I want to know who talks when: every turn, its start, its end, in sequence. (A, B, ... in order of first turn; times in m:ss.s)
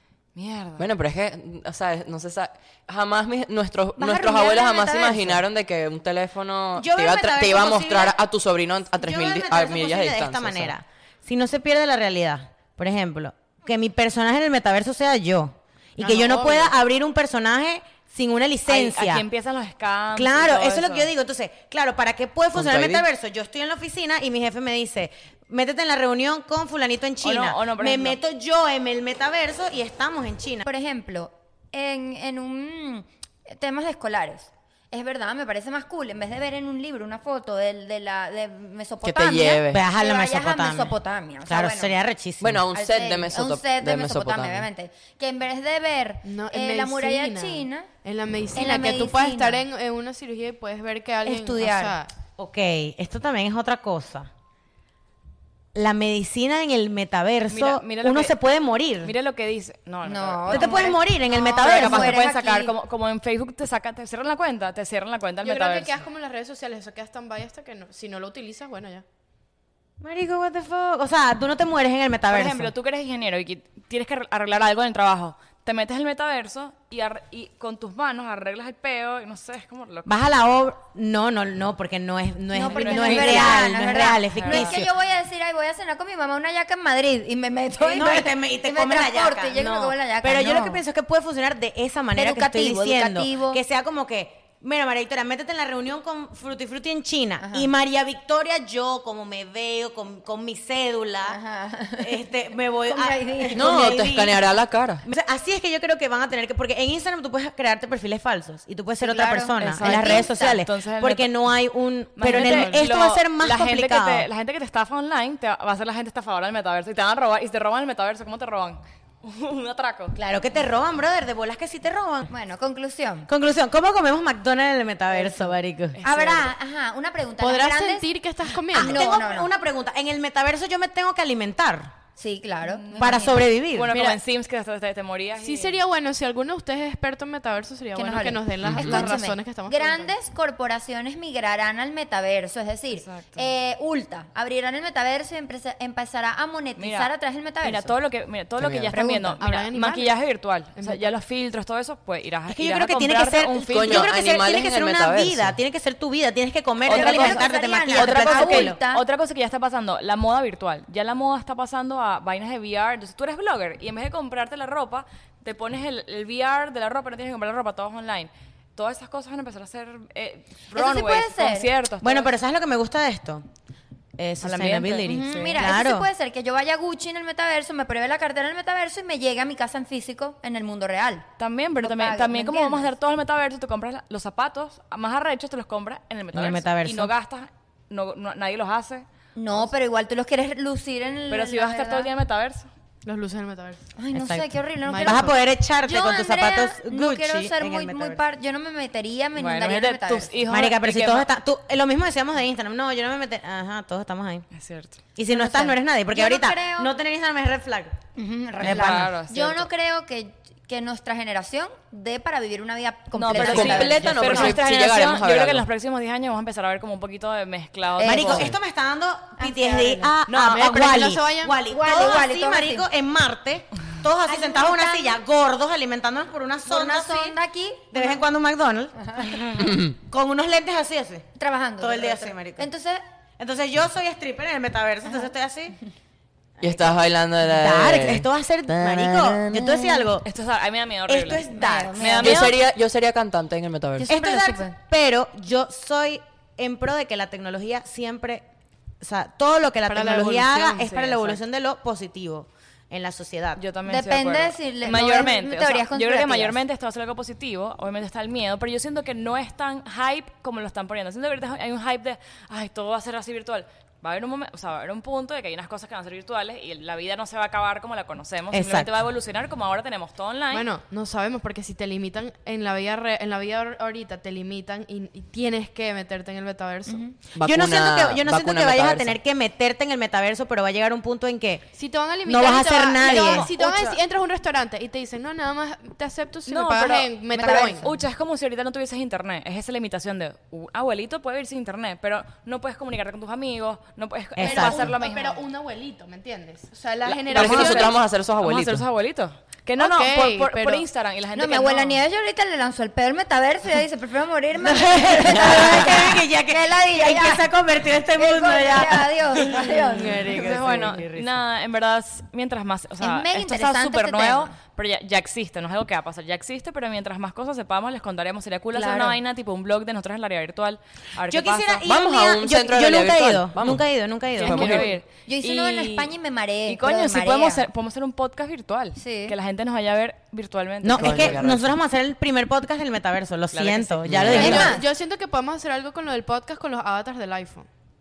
0:00.3-0:00.9 A
0:00.8-0:10.7 B
0:04.0-0:05.4 C
0:06.8-0:08.2 D
0:09.0-0:19.2 D
0:16.0-0:16.7 E
0:18.7-0:21.1 A
0:20.1-0:30.7 D
0:22.5-0:23.0 B
0:27.2-0:28.2 A
0:30.6-0:41.9 C
0:39.0-0:39.8 B
0:39.7-0:40.9 D
0:41.4-0:42.6 D
0:42.4-0:44.7 B
0:42.7-0:47.9 C
0:46.2-0:52.1 E
0:48.5-0:49.6 C
0:51.2-0:52.0 C
0:52.4-0:54.3 D
0:55.7-0:59.1 D
0:57.5-0:58.3 A
0:59.0-1:06.0 A
1:00.0-1:02.7 C
1:00.5-1:02.2 D
1:05.4-1:09.0 E
1:10.0-1:12.7 D
1:12.3-1:20.1 A
1:20.0-1:24.9 D
1:22.5-1:30.8 C
1:22.7-1:23.7 A
1:24.3-1:24.8 A
1:27.8-1:41.4 D
1:32.2-1:33.6 C
1:37.4-1:37.7 C
1:41.3-1:42.2 C
1:42.0-1:44.4 D
1:42.9-1:43.9 C
1:43.5-1:45.0 B
1:45.0-1:54.3 D
1:49.0-1:50.6 C
1:49.6-1:51.3 A
1:52.2-2:00.2 A
1:52.3-1:52.7 C
2:00.1-2:02.3 D
2:02.3-2:03.3 C
2:03.2-2:06.0 D
2:05.1-2:06.5 A
2:06.0-2:08.1 C
2:07.4-2:09.1 E
2:08.7-2:09.5 C
2:08.7-2:11.9 D
2:12.2-2:13.4 C
2:12.6-2:15.8 A
2:13.0-2:13.9 D
2:13.9-2:14.2 E
2:15.4-2:20.1 E
2:17.9-2:27.9 C
2:18.6-2:19.1 B
2:22.9-2:23.5 A
2:26.8-2:34.1 A
2:28.6-2:28.9 B
2:28.9-2:29.4 C
2:29.4-2:30.2 E
2:30.8-2:31.1 E
2:32.5-2:38.8 D
2:33.7-2:35.6 B
2:36.8-2:52.3 A
2:36.9-2:39.0 C
2:50.7-2:51.7 C
2:52.0-2:53.4 D
2:54.2-2:56.1 D
2:54.4-2:55.6 A
2:55.1-3:02.9 C
3:01.4-3:09.0 A
3:06.3-3:07.1 D
3:09.4-3:12.1 C
3:11.3-3:12.7 A
3:13.0-3:13.8 E
3:14.0-3:20.5 C
3:14.1-3:14.5 D
3:14.8-3:15.3 E
3:15.0-3:18.2 D
3:19.4-3:21.3 A
3:20.5-3:24.4 D
3:24.5-3:25.0 A
3:25.2-3:27.9 D
3:25.3-3:26.9 C
3:28.2-3:34.6 C
3:28.6-3:29.7 A
3:28.6-3:29.1 D
3:33.1-3:38.5 A
3:33.3-3:35.6 B
3:34.0-3:34.5 D
3:38.0-3:38.5 C
3:38.0-3:47.4 D
3:39.4-3:40.1 C
3:40.3-3:41.6 E
3:41.6-3:42.8 C
3:44.3-3:45.1 C
3:46.6-3:48.1 C
3:47.9-3:52.7 D
3:49.0-3:49.5 C
3:49.6-3:50.0 B
3:51.4-3:53.0 C
3:53.4-3:55.8 D
3:56.6-4:00.2 D
3:56.6-3:59.7 B
3:59.5-4:00.1 C
4:00.2-4:02.6 A
4:01.1-4:02.4 D
4:01.5-4:02.5 C
4:02.2-4:04.1 B
4:04.0-4:04.7 C
4:04.1-4:08.4 D
4:09.0-4:13.6 D
4:09.9-4:11.0 E
4:10.7-4:11.4 A
4:13.6-4:30.7 A
4:13.8-4:16.6 C
4:28.5-4:28.9 D
4:30.5-4:37.0 E
4:36.9-4:37.1 C
4:37.4-4:39.2 B
4:37.4-4:41.6 D
4:41.7-4:47.8 E
4:42.2-4:43.9 D
4:43.0-4:43.9 A
4:46.4-4:55.4 A
4:47.3-4:48.0 C
4:54.4-4:54.8 D
4:54.4-4:58.0 E
4:57.1-5:02.0 A
4:57.3-4:58.8 B
4:59.8-5:00.8 E
5:01.3-5:07.4 C
5:04.5-5:11.3 D
5:08.2-5:10.4 C
5:10.2-5:21.8 A
5:13.0-5:14.5 C
5:18.7-5:19.2 C
5:21.3-5:24.8 D
5:21.8-5:24.9 B
5:24.4-5:26.1 A
5:25.2-5:27.6 C
5:26.6-5:31.4 A
5:29.0-5:29.4 C
5:30.8-5:34.7 D
5:31.0-5:31.7 B
5:31.0-5:31.3 C
5:33.5-5:34.5 A
5:34.0-5:34.7 B
5:34.3-5:34.9 C
5:34.3-5:37.7 E